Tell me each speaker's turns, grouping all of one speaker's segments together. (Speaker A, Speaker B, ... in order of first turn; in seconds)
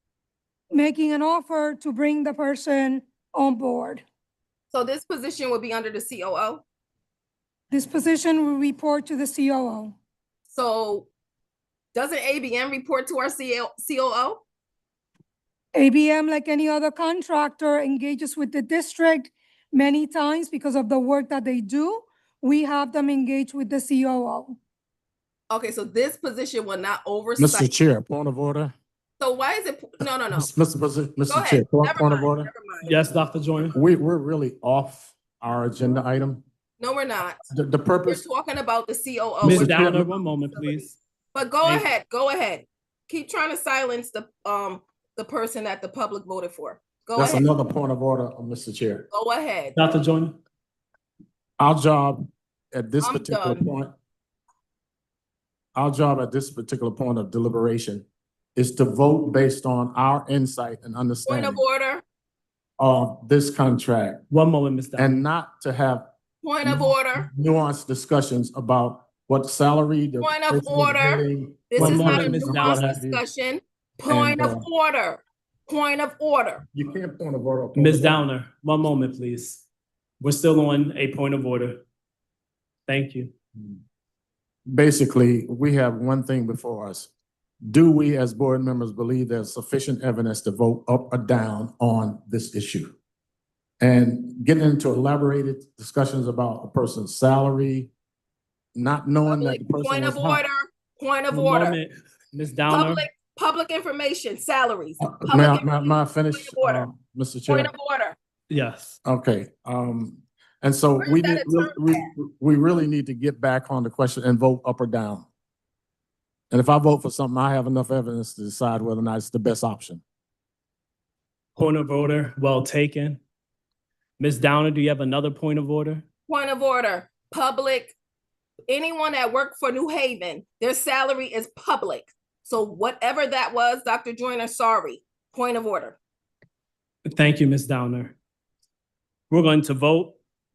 Speaker A: 0.7-4.0, 7.7-10.0, 15.7-24.6
Speaker B: 4.7-6.6, 10.5-11.1, 11.9-14.4, 25.5-27.7, 29.2-30.5, 31.3-33.0, 36.8-37.4, 38.0-47.5, 49.1-49.8, 53.0-53.6, 61.2-62.0, 66.4-67.3, 70.2-76.6, 99.2-101.8, 102.7-106.9, 107.5-108.2, 111.0-112.1, 126.3-127.9, 128.7-136.0
Speaker C: 27.4-28.7, 30.3-32.5, 33.7-36.4, 37.5-38.2, 39.4-40.0, 47.1-49.1, 51.6-53.9, 55.7-61.6, 62.8-64.2, 65.0-66.1, 66.6-73.2, 74.1-74.6, 76.7-78.2, 84.7-87.1, 87.6-92.9, 93.8-97.9, 98.7-100.4, 105.0-107.7, 109.0-115.3, 116.5-120.0
Speaker D: 32.8-33.7, 39.4-40.9, 41.6-41.9, 49.8-50.4, 64.3-65.2, 71.8-73.0, 77.8-79.6, 80.2-81.8, 82.9-83.3, 101.3-103.0, 108.5-109.0, 121.5-123.2, 124.2-126.0, 137.1-138.1, 139.3-140.2